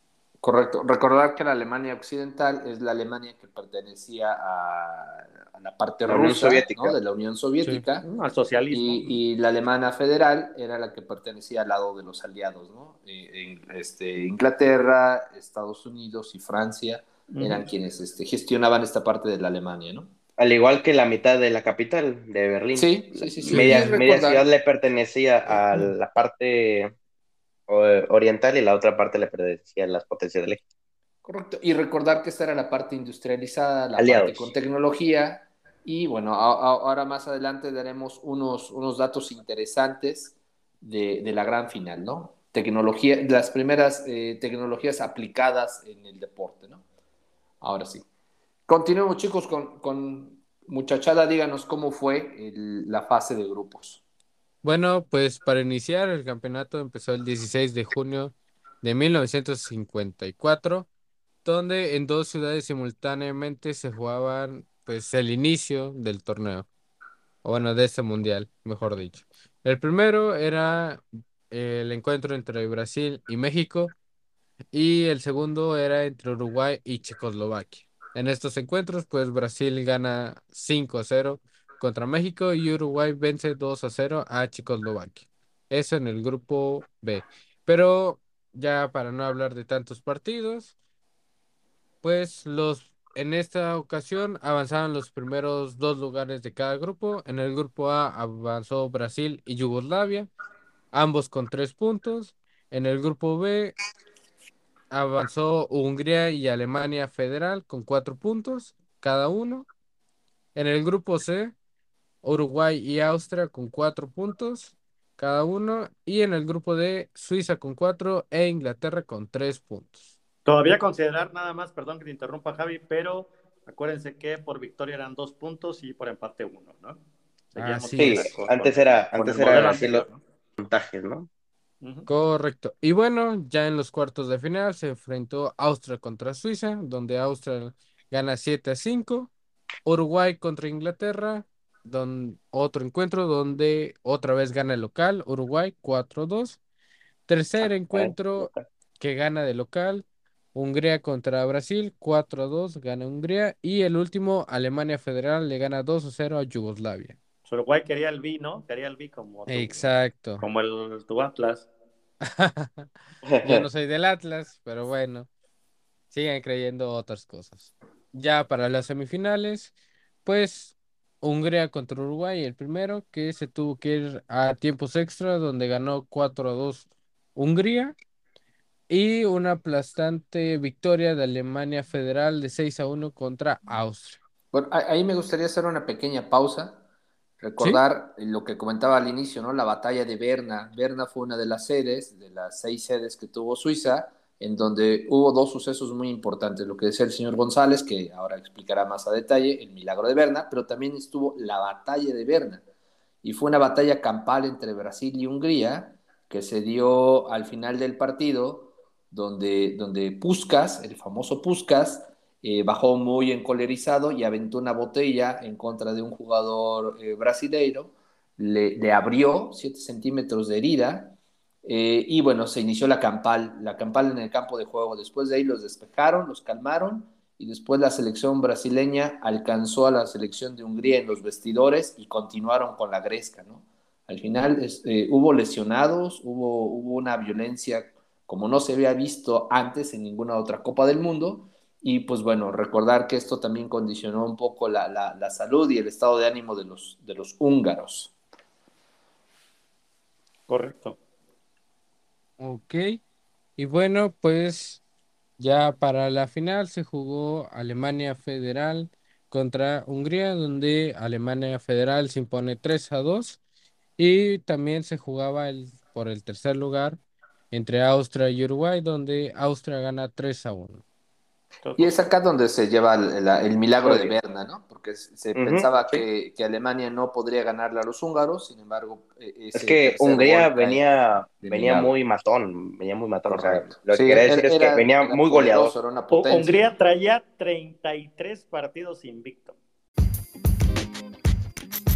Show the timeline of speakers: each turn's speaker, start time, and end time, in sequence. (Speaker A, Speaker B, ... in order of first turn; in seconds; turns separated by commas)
Speaker A: 0.4-8.1, Speaker B: 6.1-6.9, Speaker C: 8.0-9.2, Speaker A: 8.7-20.1, Speaker C: 17.3-17.7, Speaker B: 20.4-26.9, Speaker A: 22.8-24.5, Speaker D: 23.5-24.0, Speaker B: 27.7-30.6, Speaker A: 31.2-46.8, Speaker B: 34.0-34.5, Speaker A: 47.6-48.0, Speaker A: 48.7-54.0, Speaker D: 54.6-60.9, Speaker D: 61.4-66.7, Speaker D: 67.4-73.9, Speaker D: 74.7-90.7, Speaker D: 92.0-100.3, Speaker D: 100.9-103.8, Speaker D: 104.9-109.7, Speaker D: 110.5-111.5, Speaker D: 112.2-120.0, Speaker C: 120.4-127.0, Speaker C: 127.5-130.2, Speaker D: 127.6-128.3, Speaker B: 128.0-130.1, Speaker B: 130.6-131.3, Speaker C: 131.8-132.1, Speaker D: 132.1-139.3, Speaker D: 139.8-146.6, Speaker D: 147.3-157.2, Speaker B: 147.6-148.6, Speaker C: 157.5-159.9, Speaker D: 159.5-160.4, Speaker C: 160.4-161.7, Speaker D: 162.2-162.9, Speaker B: 163.3-163.7, Speaker D: 163.4-165.3, Speaker D: 166.1-169.7, Speaker D: 170.2-178.0, Speaker D: 178.9-184.2, Speaker A: 184.5-186.8, Speaker A: 187.4-202.6, Speaker A: 203.2-248.1, Speaker C: 250.5-251.0, Speaker D: 252.4-253.0, Speaker D: 253.6-254.8, Speaker D: 255.4-263.4, Speaker D: 264.0-267.0, Speaker D: 267.5-270.8, Speaker C: 271.6-271.9, Speaker A: 271.8-280.8, Speaker B: 273.8-274.2, Speaker B: 275.3-276.1, Speaker B: 279.5-285.7, Speaker A: 281.4-281.9, Speaker A: 283.3-286.7, Speaker C: 286.1-289.6